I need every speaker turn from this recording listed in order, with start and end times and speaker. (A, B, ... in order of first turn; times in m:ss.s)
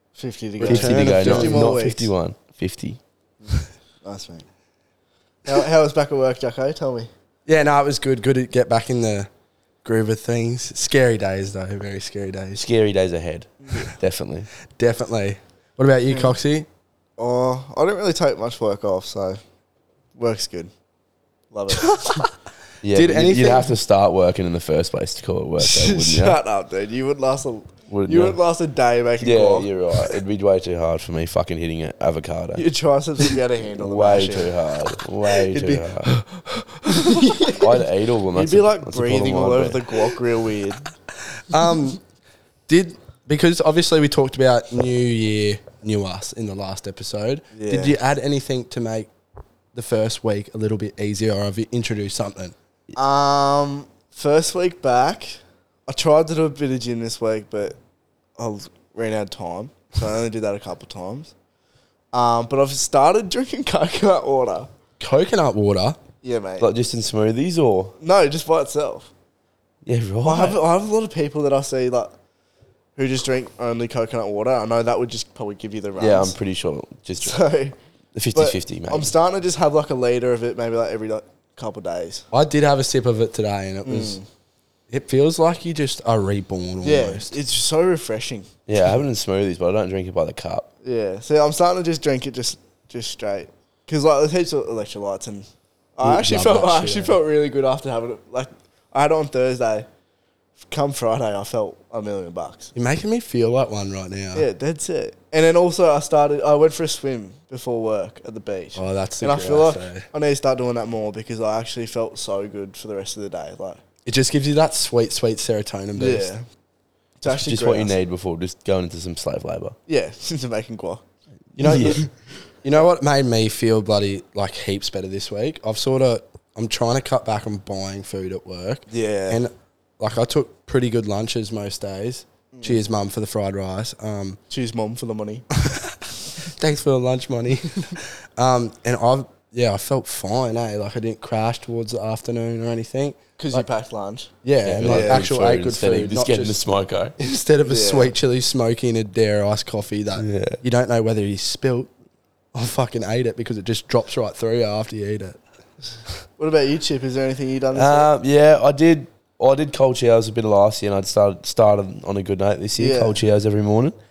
0:00.2-0:02.1 A
0:00.6-0:01.6 B
0:00.6-0:03.0 C
0:03.4-0:04.4 A
0:05.5-0:07.1 A
0:07.5-0:09.3 B
0:09.8-0:12.6 B
0:12.6-0:14.5 C
0:14.8-0:16.7 B
0:16.1-0:16.4 A
0:17.2-0:19.4 A
0:20.2-0:20.7 A
0:21.5-0:22.0 A
0:21.8-0:22.3 B
0:22.8-0:26.4 C
0:22.9-0:23.8 B
0:25.6-0:29.7 A
0:27.9-0:28.4 C
0:29.2-0:32.6 C
0:32.6-0:34.5 A
0:33.8-0:36.1 C
0:35.4-0:37.7 B
0:37.5-0:39.8 C
0:38.3-0:40.9 A
0:41.5-0:42.0 B
0:42.7-0:49.1 B
0:47.5-0:48.0 A
0:49.7-0:52.6 B
0:53.0-0:57.8 A
0:58.4-1:01.3 A
1:02.1-1:04.7 A
1:05.0-1:06.0 B
1:06.2-1:06.7 A
1:06.6-1:08.0 C
1:08.0-1:09.1 A
1:09.8-1:10.6 C
1:10.2-1:12.1 A
1:13.0-1:16.4 A
1:16.0-1:17.4 C
1:17.2-1:17.8 A
1:18.2-1:19.1 C
1:18.4-1:22.2 A
1:22.3-1:24.2 B
1:23.8-1:24.3 A
1:24.9-1:27.4 B
1:26.8-1:28.5 A
1:28.7-1:30.7 C
1:30.8-1:39.9 A
1:36.0-1:37.2 B
1:40.6-1:42.7 A
1:42.8-1:44.5 B
1:44.3-1:53.8 A
1:48.8-1:50.0 B
1:54.1-1:56.3 B
1:56.0-1:56.4 A
1:57.2-1:58.0 A
1:57.2-1:59.8 C
1:59.9-2:01.0 A
2:01.6-2:02.0 C
2:01.6-2:02.0 B
2:01.7-2:02.1 A
2:02.6-2:14.4 B
2:08.9-2:09.4 A
2:12.5-2:12.8 A
2:14.5-2:15.5 A
2:15.6-2:23.6 B
2:23.4-2:24.3 A
2:24.4-2:26.6 B
2:24.6-2:27.2 C
2:24.8-2:25.2 A
2:27.2-2:31.9 B
2:27.7-2:28.1 A
2:30.2-2:30.6 C
2:32.5-2:35.4 B
2:36.4-2:38.1 A
2:37.7-2:44.0 C
2:42.8-2:43.2 A